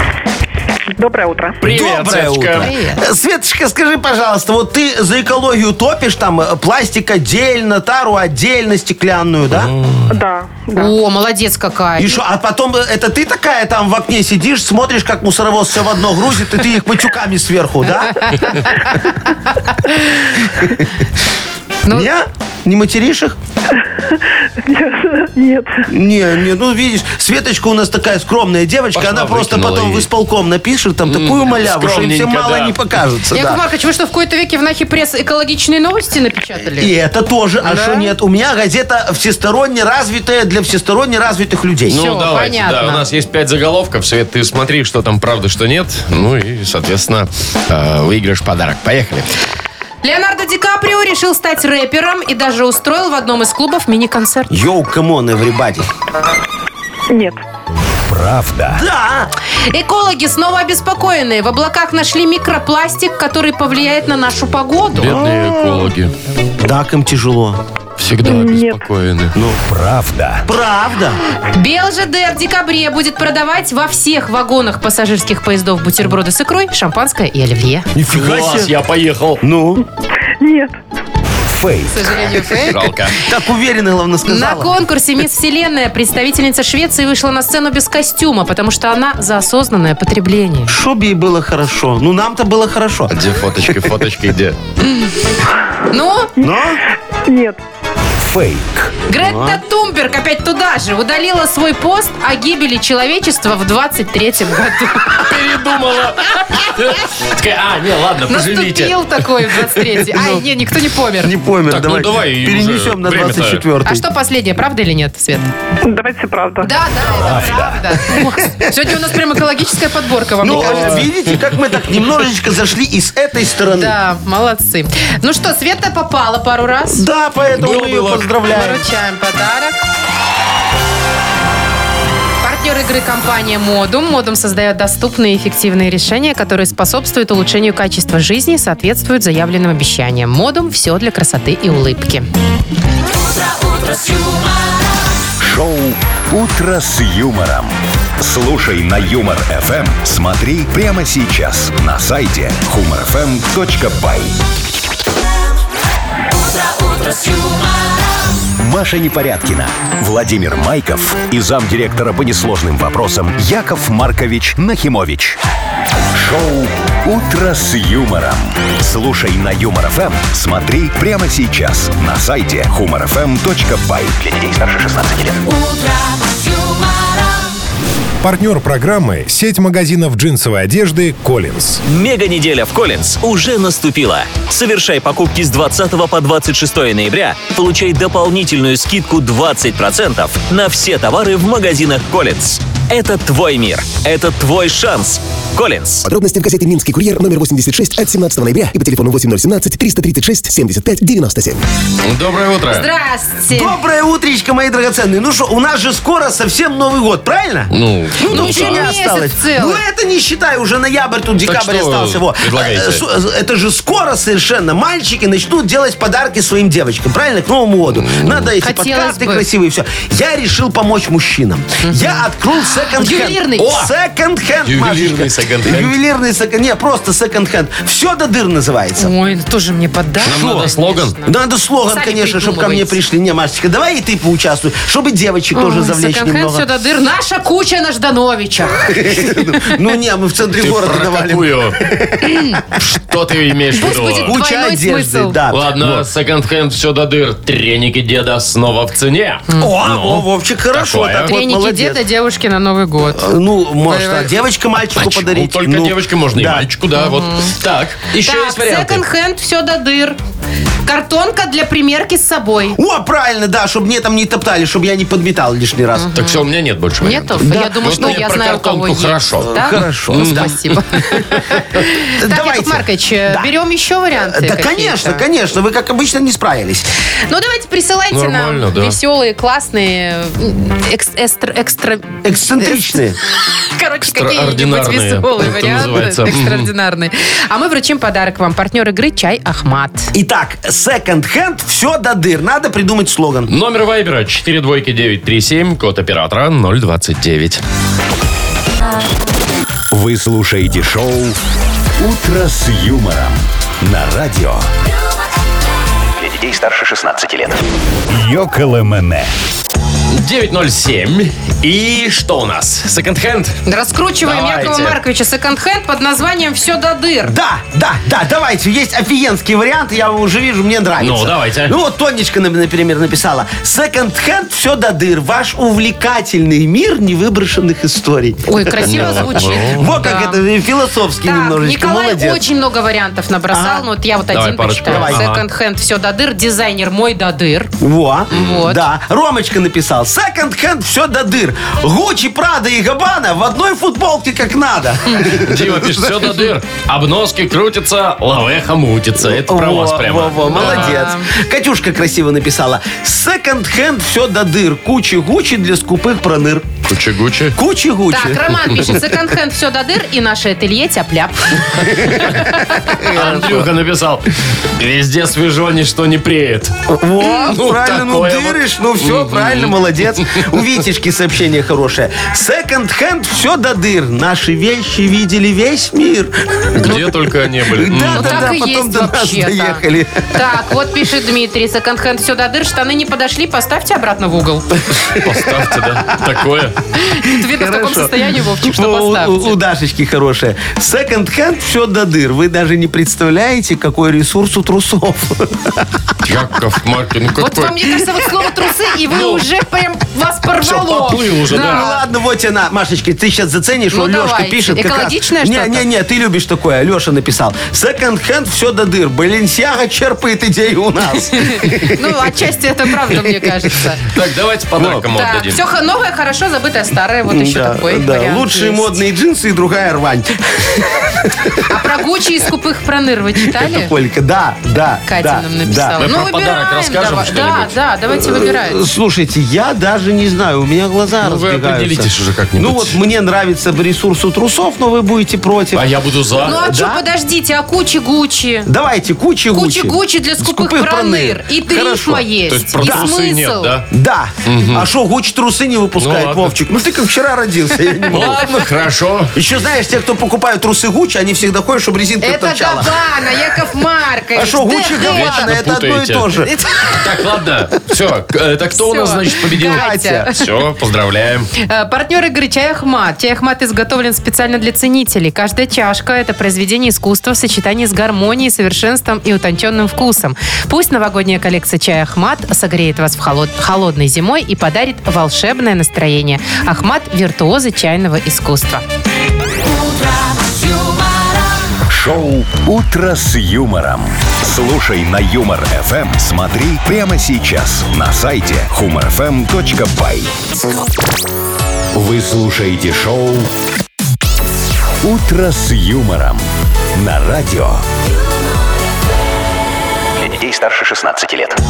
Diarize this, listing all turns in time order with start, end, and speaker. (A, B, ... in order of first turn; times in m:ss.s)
0:01.0-0:01.6 A
0:01.6-0:02.7 B
0:01.6-0:09.7 C
0:02.6-0:03.0 D
0:09.5-0:10.1 B
0:10.1-0:10.9 A
0:10.8-0:12.2 D
0:12.0-0:18.8 C
0:18.3-0:19.1 D
0:19.7-0:20.3 D
0:20.4-0:20.9 C
0:21.9-0:23.4 C
0:23.8-0:25.9 A
0:25.9-0:33.6 C
0:28.9-0:30.1 B
0:31.1-0:32.8 B
0:33.3-0:36.9 D
0:36.8-0:42.0 C
0:37.6-0:38.1 D
0:41.9-0:49.3 B
0:41.9-0:43.0 D
0:50.0-0:54.5 D
0:54.5-0:55.9 C
0:57.1-0:57.4 A
0:58.1-0:58.8 E
0:58.7-0:59.3 C
0:59.7-1:05.1 D
1:05.0-1:06.1 B
1:05.0-1:05.9 C
1:06.6-1:07.6 C
1:08.0-1:09.3 B
1:08.2-1:08.8 A
1:09.4-1:09.6 C
1:09.7-1:10.5 E
1:10.5-1:11.2 C
1:11.5-1:17.9 D
1:18.0-1:18.7 C
1:18.1-1:19.4 B
1:19.4-1:19.8 C
1:20.4-1:20.8 A
1:21.5-1:22.1 E
1:21.9-1:22.8 D
1:22.7-1:23.2 B
1:23.2-1:24.7 C
1:24.3-1:30.7 D
1:30.7-1:33.1 C
1:33.1-1:34.6 B
1:34.8-1:35.1 D
1:35.9-1:36.3 D
1:36.4-1:36.8 C
1:37.2-1:37.6 A
1:38.2-1:38.9 E
1:39.1-1:45.2 D
1:39.2-1:39.6 C
1:45.2-1:49.0 B
1:48.3-1:51.3 D
1:50.1-1:50.4 C
1:51.2-1:54.0 C
1:51.7-1:53.6 B
1:53.8-1:55.5 D
1:55.8-1:56.7 A
1:56.6-2:01.0 D
1:57.1-1:58.0 E
2:00.4-2:04.0 C
2:00.5-2:01.2 B
2:03.7-2:07.0 D
2:06.9-2:08.8 C
2:07.6-2:08.3 B
2:08.5-2:09.8 D
2:12.4-2:22.3 D
2:25.4-2:34.3 E
2:37.0-2:37.5 E
2:38.6-2:45.4 E
2:46.1-2:55.6 E
2:58.2-3:01.8 F
3:01.9-3:16.1 G
3:16.0-3:21.6 H
3:22.0-3:22.9 B
3:22.7-3:23.8 D
3:23.5-3:49.1 C
3:27.7-3:28.9 B
3:28.3-3:29.8 D
3:31.5-3:33.0 B
3:37.9-3:38.5 B
3:38.6-3:39.5 D
3:41.8-3:42.3 D
3:43.0-3:43.9 D
3:43.6-3:43.9 B
3:44.6-3:46.0 B
3:49.0-3:51.4 D
3:50.2-3:50.7 C
3:50.2-3:51.2 B
3:51.2-3:56.7 C
3:51.9-3:53.0 D
3:55.6-3:59.8 D
3:58.9-4:02.6 C
4:00.6-4:01.8 B
4:02.2-4:02.6 D
4:02.8-4:04.4 B
4:03.8-4:05.4 D
4:03.9-4:06.0 C
4:05.5-4:11.3 B
4:09.5-4:09.7 D
4:09.6-4:12.0 C
4:11.2-4:13.3 D
4:13.2-4:16.7 C
4:13.9-4:14.3 D
4:14.9-4:19.0 B
4:17.0-4:17.5 D
4:18.2-4:20.2 D
4:20.8-4:22.8 D
4:22.8-4:26.1 C
4:26.0-4:26.5 D
4:26.2-4:30.5 B
4:27.0-4:35.2 D
4:27.4-4:28.2 C
4:29.4-4:30.6 C
4:32.1-4:33.5 C
4:34.2-4:36.9 C
4:37.3-4:43.0 D
4:38.1-4:39.0 B
4:42.2-4:43.2 C
4:43.6-4:50.1 D
4:44.0-4:46.7 B
4:50.1-4:53.5 C
4:53.5-4:57.6 B
4:59.9-5:01.4 E
5:02.0-5:04.7 E
5:06.2-5:09.3 E
5:10.1-5:13.6 B
5:13.7-5:17.3 D
5:14.2-5:15.0 B
5:17.3-5:32.4 C
5:21.0-5:21.8 B
5:28.5-5:30.4 D
5:28.8-5:30.0 B
5:31.2-5:37.7 D
5:33.5-5:33.9 C
5:34.3-5:35.4 B
5:34.9-5:35.3 C
5:37.8-5:46.4 C
5:38.3-5:38.8 D
5:45.3-5:51.0 B
5:49.2-5:56.7 C
5:50.4-5:51.3 D
5:56.9-5:57.6 B
5:57.6-5:59.0 C
5:58.1-6:03.0 D
6:01.9-6:03.7 C
6:03.0-6:10.4 B
6:06.9-6:20.3 C
6:16.8-6:18.6 B
6:18.1-6:24.8 D
6:25.0-6:26.2 C
6:25.1-6:26.8 B
6:27.0-6:29.6 D
6:27.4-6:35.9 C
6:36.2-6:37.9 B
6:37.4-6:42.0 D
6:39.1-6:39.4 B
6:40.6-6:41.9 B
6:41.4-6:52.3 C
6:43.9-6:45.9 D
6:51.4-6:54.0 D
6:53.1-6:53.4 C
6:54.1-6:55.6 B
6:54.8-6:55.0 C
6:55.1-6:59.0 D
6:57.3-7:01.6 C
7:01.7-7:03.9 D
7:03.5-7:06.0 C
7:05.1-7:08.8 D
7:06.0-7:07.8 B
7:08.2-7:15.9 C
7:11.2-7:13.0 B
7:15.7-7:16.6 B
7:16.4-7:17.0 C
7:16.4-7:18.7 D
7:18.7-7:22.3 C
7:19.5-7:23.8 D
7:22.5-7:23.9 B
7:22.8-7:23.1 C
7:23.9-7:28.6 C
7:24.4-7:24.9 B
7:26.0-7:26.6 B
7:28.1-7:29.4 B
7:29.4-7:33.0 C
7:32.2-7:35.5 D
7:34.4-7:36.5 C
7:34.9-7:36.4 B
7:36.4-7:37.0 D
7:37.0-7:41.5 B
7:38.8-7:40.4 D
7:39.5-7:40.3 C
7:41.6-7:58.8 D
8:01.9-8:10.3 E
8:11.9-8:13.5 E
8:15.0-8:17.8 E
8:20.2-8:21.6 E